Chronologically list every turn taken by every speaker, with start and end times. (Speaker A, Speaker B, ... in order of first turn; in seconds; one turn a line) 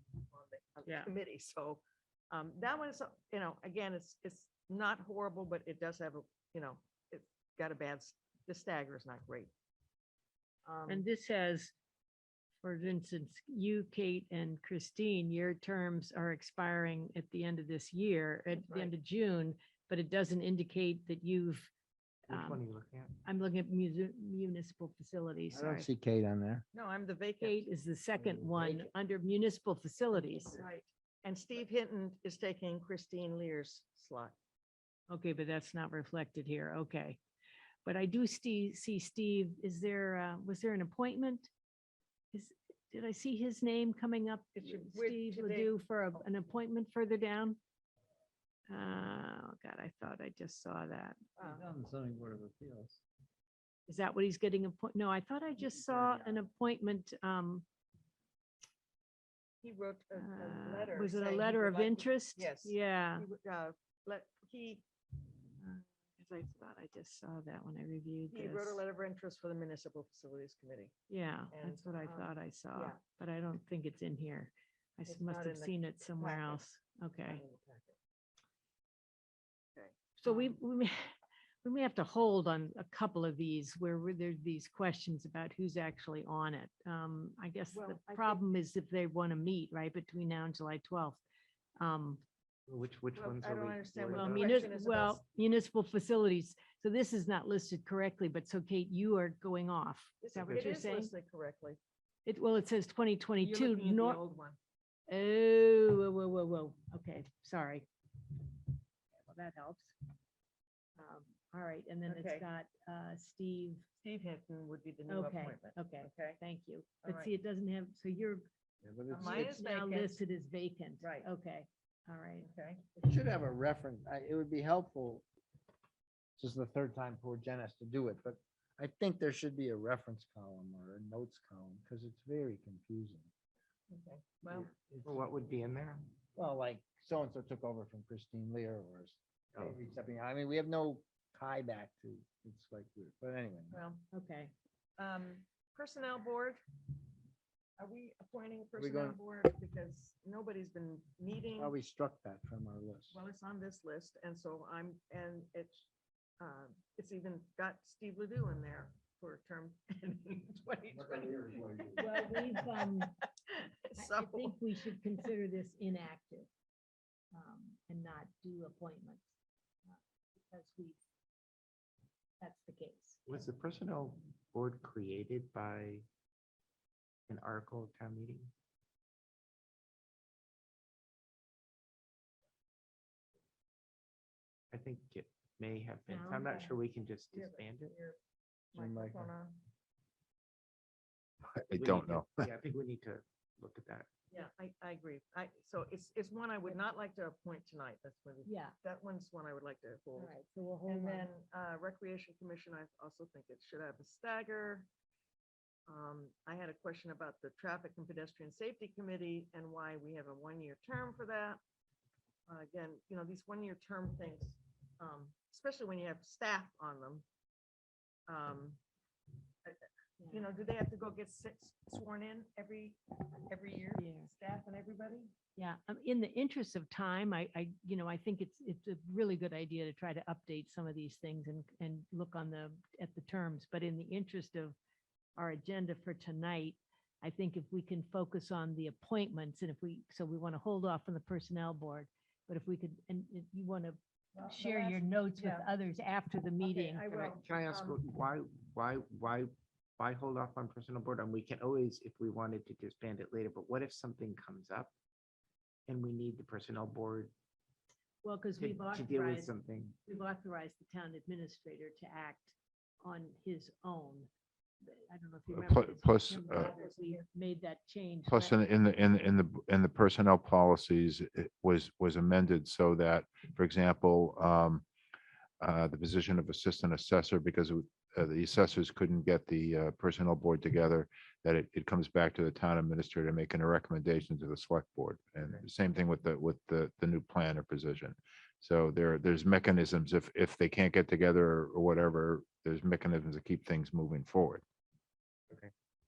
Speaker A: 0.3-9.5
Speaker B: 0.8-1.1
Speaker A: 10.6-11.0
Speaker B: 10.8-11.7
Speaker B: 12.6-21.7
Speaker A: 18.5-18.9
Speaker B: 22.3-22.6
Speaker C: 22.3-23.1
Speaker B: 23.2-25.9
Speaker D: 25.5-26.6
Speaker A: 26.7-27.7
Speaker B: 27.4-30.6
Speaker D: 28.2-28.9
Speaker A: 30.1-34.3
Speaker B: 35.1-37.2
Speaker B: 37.8-41.5
Speaker B: 42.3-47.6
Speaker A: 44.5-46.2
Speaker B: 48.7-51.2
Speaker A: 51.4-51.7
Speaker D: 51.5-53.0
Speaker B: 53.9-57.6
Speaker D: 55.9-56.4
Speaker A: 59.6-64.8
Speaker B: 60.1-63.2
Speaker B: 65.6-68.8
Speaker A: 68.3-70.9
Speaker B: 71.1-77.4
Speaker A: 71.5-73.0
Speaker A: 75.1-76.6
Speaker A: 77.2-77.9
Speaker A: 79.8-80.5
Speaker B: 80.2-81.1
Speaker B: 81.6-91.2
Speaker A: 87.7-88.4
Speaker B: 91.8-92.2
Speaker C: 92.7-94.6
Speaker A: 93.1-95.2
Speaker B: 94.1-101.1
Speaker A: 100.2-101.8
Speaker C: 100.3-100.7
Speaker B: 102.2-104.2
Speaker A: 103.4-104.6
Speaker B: 105.1-107.9
Speaker B: 109.2-109.9
Speaker B: 111.0-113.8
Speaker A: 112.0-112.5
Speaker A: 114.0-116.4
Speaker B: 115.1-118.5
Speaker A: 117.0-117.3
Speaker D: 118.8-119.5
Speaker A: 119.1-120.2
Speaker B: 119.2-123.0
Speaker A: 121.0-121.3
Speaker A: 122.4-122.8
Speaker D: 123.0-125.2
Speaker D: 126.4-133.3
Speaker A: 133.9-134.7
Speaker D: 134.8-135.1
Speaker C: 134.9-136.1
Speaker D: 136.3-143.8
Speaker A: 143.7-144.1
Speaker B: 144.1-144.5
Speaker A: 145.0-146.6
Speaker A: 147.8-151.7
Speaker D: 148.8-149.2
Speaker D: 151.6-153.2
Speaker A: 153.1-155.9
Speaker A: 156.4-164.6
Speaker B: 162.0-163.2
Speaker B: 163.9-166.5
Speaker B: 167.3-169.3
Speaker B: 169.9-171.0
Speaker B: 172.4-173.2
Speaker C: 173.3-176.1
Speaker C: 177.3-178.5
Speaker C: 184.7-187.9
Speaker B: 186.1-186.8
Speaker A: 187.3-188.2
Speaker A: 188.7-189.6
Speaker D: 188.7-189.3
Speaker E: 191.5-192.4
Speaker C: 191.8-194.1
Speaker A: 194.3-200.3
Speaker B: 198.4-198.7
Speaker B: 200.2-201.3
Speaker A: 200.9-204.9
Speaker A: 205.9-211.6
Speaker A: 212.5-217.2
Speaker A: 218.3-218.8
Speaker A: 219.6-225.3
Speaker B: 220.2-220.5
Speaker B: 223.9-224.3
Speaker B: 225.6-234.8
Speaker B: 235.3-247.4
Speaker A: 244.3-245.7
Speaker A: 246.6-248.0
Speaker C: 247.4-254.9
Speaker C: 255.9-257.3
Speaker B: 258.2-259.5
Speaker C: 258.6-259.9
Speaker B: 260.0-264.3
Speaker B: 264.8-268.6
Speaker E: 265.5-266.7
Speaker A: 266.7-267.0
Speaker E: 268.2-274.8
Speaker E: 275.6-294.6